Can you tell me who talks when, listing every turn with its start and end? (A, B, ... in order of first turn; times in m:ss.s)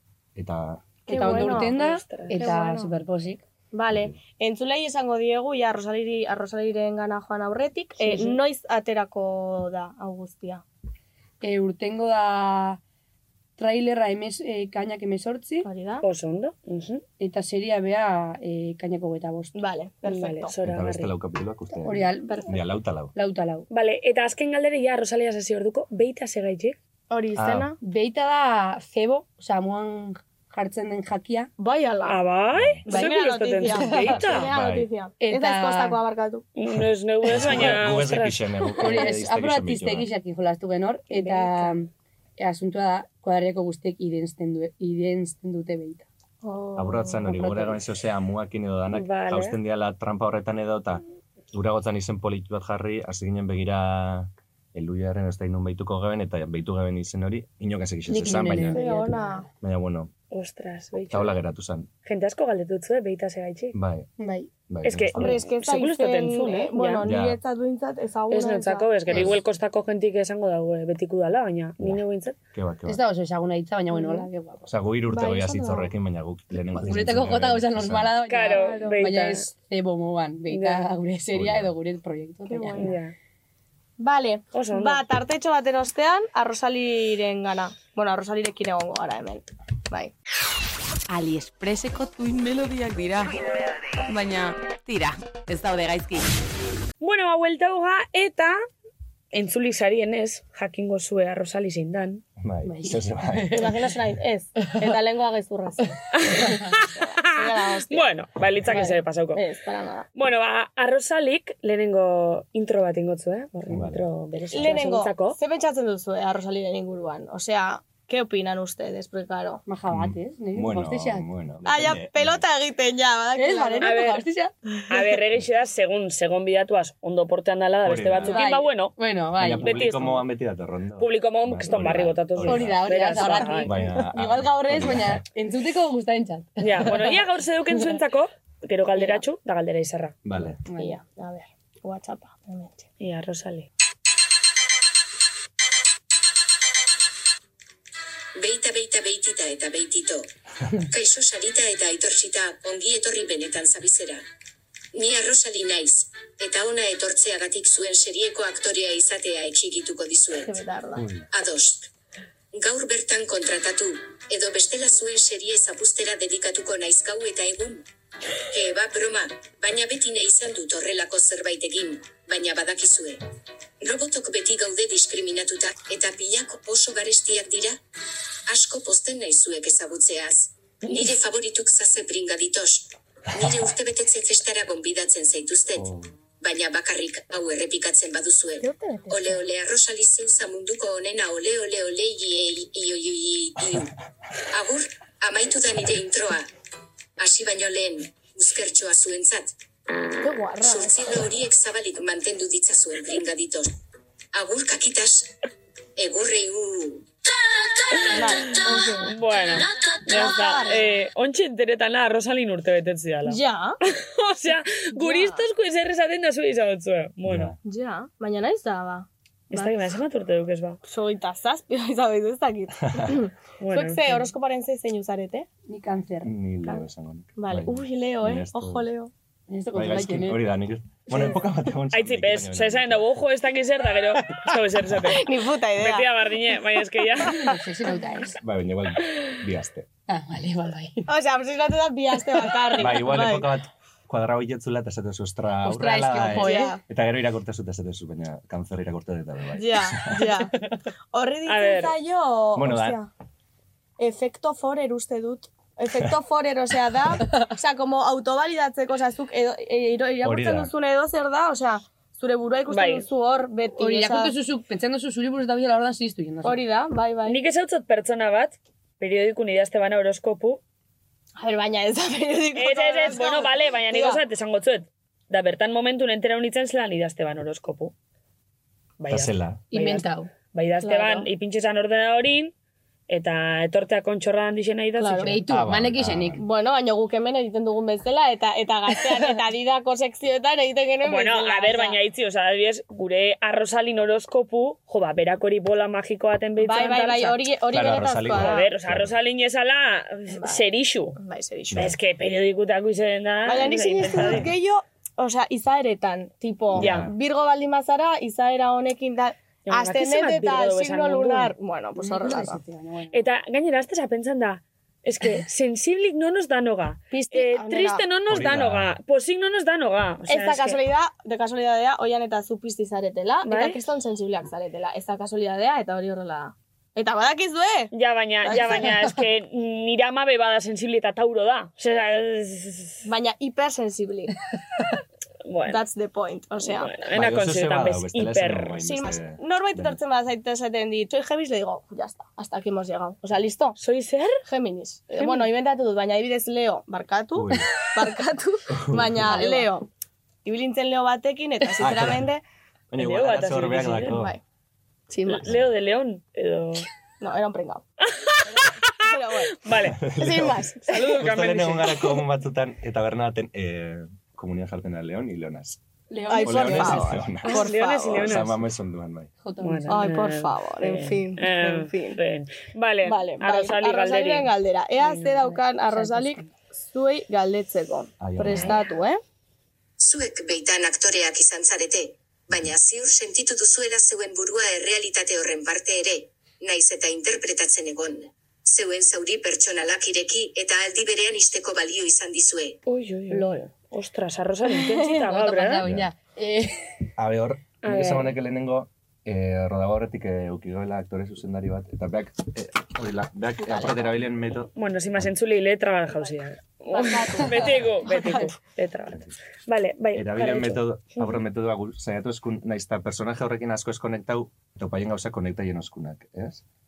0:00.3-0:00.9 A
0:01.1-0:01.8 B
0:01.1-0:03.4 C
0:01.1-0:02.5 D
0:02.3-0:02.9 B
0:03.7-0:10.6 B
0:03.9-0:04.2 A
0:08.0-0:08.4 C
0:11.4-0:12.8 C
0:13.6-0:15.7 C
0:15.6-0:16.0 B
0:16.0-0:17.0 D
0:17.2-0:19.5 C
0:19.5-0:20.5 B
0:20.0-0:21.1 D
0:20.6-0:23.1 A
0:21.8-0:22.5 C
0:23.1-0:23.6 C
0:23.7-0:26.8 D
0:27.1-0:27.8 B
0:27.3-0:27.7 A
0:27.8-0:31.5 C
0:31.6-0:32.2 B
0:32.0-0:34.5 D
0:32.5-0:32.8 A
0:32.8-0:36.4 B
0:33.9-0:34.9 A
0:35.2-0:36.0 C
0:36.6-0:38.6 D
0:37.3-0:40.1 A
0:38.8-0:46.0 C
0:41.1-0:41.7 D
0:46.4-0:47.2 B
0:46.8-0:58.8 A
0:47.2-0:47.8 C
0:48.9-0:49.6 D
0:58.1-0:59.5 C
0:58.7-0:59.4 B
0:59.6-1:00.1 A
1:00.3-1:01.4 D
1:01.1-1:01.9 A
1:02.0-1:03.8 D
1:03.7-1:04.1 A
1:04.2-1:04.5 C
1:04.7-1:05.4 A
1:04.8-1:07.1 D
1:05.1-1:09.3 B
1:07.0-1:07.4 A
1:08.3-1:12.4 D
1:09.1-1:09.4 A
1:11.8-1:13.0 A
1:12.8-1:14.7 C
1:13.9-1:14.3 B
1:14.6-1:18.2 A
1:15.1-1:15.9 B
1:16.8-1:23.0 C
1:18.2-1:19.5 D
1:18.6-1:19.0 B
1:20.5-1:20.8 D
1:21.3-1:21.7 A
1:22.5-1:22.9 B
1:22.8-1:23.1 D
1:24.0-1:30.1 B
1:24.5-1:25.0 D
1:31.1-1:33.4 E
1:34.0-1:36.3 E
1:37.0-1:38.6 D
1:39.3-1:42.2 D
1:42.4-1:43.7 A
1:42.6-1:43.0 C
1:43.5-1:48.1 B
1:46.2-1:47.3 D
1:47.9-1:49.4 D
1:48.7-1:50.1 B
1:50.1-1:55.4 D
1:53.7-1:54.0 A
1:54.5-1:59.6 B
1:59.6-2:01.2 C
1:59.9-2:02.4 A
2:01.6-2:04.0 B
2:03.4-2:04.5 C
2:03.8-2:04.2 D
2:04.9-2:09.0 D
2:07.8-2:08.4 A
2:08.2-2:09.8 C
2:09.4-2:15.2 A
2:09.6-2:10.3 D
2:11.0-2:13.7 D
2:12.4-2:17.2 C
2:16.6-2:20.2 D
2:18.9-2:19.2 B
2:20.2-2:20.6 A
2:20.7-2:21.0 C
2:20.8-2:22.9 B
2:23.0-2:23.7 D
2:28.4-2:30.3 F
2:30.8-2:34.2 F
2:34.9-2:40.6 F
2:40.4-2:41.0 B
2:40.9-2:41.3 A
2:41.3-2:41.9 F
2:42.5-2:47.8 F
2:48.5-2:53.2 F
2:53.8-2:57.8 F
2:58.5-3:13.9 F
3:05.8-3:06.1 A
3:08.6-3:09.4 B
3:14.5-3:16.5 F
3:17.2-3:19.5 F
3:20.2-3:21.1 B
3:20.6-3:23.7 F
3:24.3-3:25.3 F
3:26.0-3:27.1 F
3:28.1-3:29.1 B
3:28.1-3:37.5 D
3:30.0-3:31.0 B
3:33.2-3:33.8 B
3:34.9-3:35.4 B
3:37.2-3:37.6 A
3:37.6-3:39.9 B
3:39.5-3:40.8 D
3:40.8-3:45.5 B
3:43.6-3:44.2 D
3:45.7-3:46.3 C
3:46.2-3:48.9 A
3:47.4-3:49.1 B
3:49.5-3:50.4 C
3:49.7-3:53.1 A
3:51.9-3:55.2 D
3:55.0-3:56.1 B
3:55.8-3:57.6 D
3:57.3-3:58.4 C
3:58.4-3:59.9 A
4:00.1-4:01.1 C
4:01.1-4:03.5 B
4:02.8-4:10.4 A
4:05.6-4:06.8 C
4:06.3-4:06.8 B
4:09.6-4:10.5 B
4:11.1-4:13.1 B
4:11.4-4:11.9 D
4:12.5-4:13.0 A
4:14.0-4:24.3 B
4:20.2-4:20.7 A
4:22.7-4:23.0 D
4:23.8-4:26.6 C
4:26.4-4:27.4 B
4:27.2-4:30.6 D
4:31.4-4:34.2 B
4:32.5-4:37.9 D
4:39.0-4:42.5 D
4:39.1-4:39.6 A
4:39.7-4:40.3 C
4:40.8-4:41.3 B
4:43.1-4:45.4 D
4:45.0-4:45.4 B
4:45.2-4:46.4 C
4:45.5-4:46.4 A
4:46.4-4:52.0 B
4:51.0-4:57.4 D
4:56.6-4:58.7 B
4:57.7-4:59.1 A
4:58.2-5:01.2 D
5:00.3-5:01.9 B
5:01.7-5:04.5 D
5:03.4-5:12.6 B
5:06.7-5:07.1 A
5:06.8-5:07.1 D
5:09.6-5:11.5 D
5:12.0-5:13.2 C
5:13.1-5:20.8 D
5:17.1-5:18.0 B
5:18.3-5:18.9 A
5:20.3-5:27.9 B
5:23.4-5:23.8 D
5:27.9-5:33.1 D
5:28.5-5:28.8 B
5:33.0-5:34.4 B
5:35.4-5:35.8 D
5:35.7-5:37.0 B
5:36.6-5:38.8 D
5:37.1-5:40.0 A
5:38.8-5:43.8 B
5:43.8-5:44.4 D
5:44.5-5:49.9 B
5:45.2-5:45.5 D
5:47.3-5:47.7 A
5:48.7-5:49.4 A
5:49.3-5:49.7 D
5:50.4-5:52.4 B
5:51.8-5:52.3 A
5:52.9-5:54.4 A
5:53.0-5:54.2 D
5:54.0-5:54.4 B
5:55.1-5:55.5 B
5:55.2-5:56.8 D
5:57.2-5:57.8 B
5:58.0-6:00.0 D
5:58.4-5:59.6 B
5:59.9-6:05.8 A
6:00.2-6:01.2 B
6:00.9-6:02.2 D
6:06.1-6:07.1 C
6:06.3-6:08.3 B
6:06.4-6:09.3 A
6:07.4-6:08.6 D
6:09.4-6:10.2 C
6:09.6-6:14.5 D
6:09.9-6:12.2 B
6:13.0-6:19.2 B
6:15.0-6:16.5 C
6:18.2-6:18.8 A
6:20.0-6:32.8 F
6:32.9-6:35.8 D
6:33.3-6:33.7 B
6:34.7-6:35.2 B
6:35.3-6:36.9 C
6:35.8-6:36.1 A
6:37.2-6:45.3 A
6:37.8-6:38.4 D
6:43.7-6:43.9 B
6:44.7-6:51.3 D
6:46.9-6:47.8 B
6:49.1-6:49.4 A
6:50.1-6:56.6 A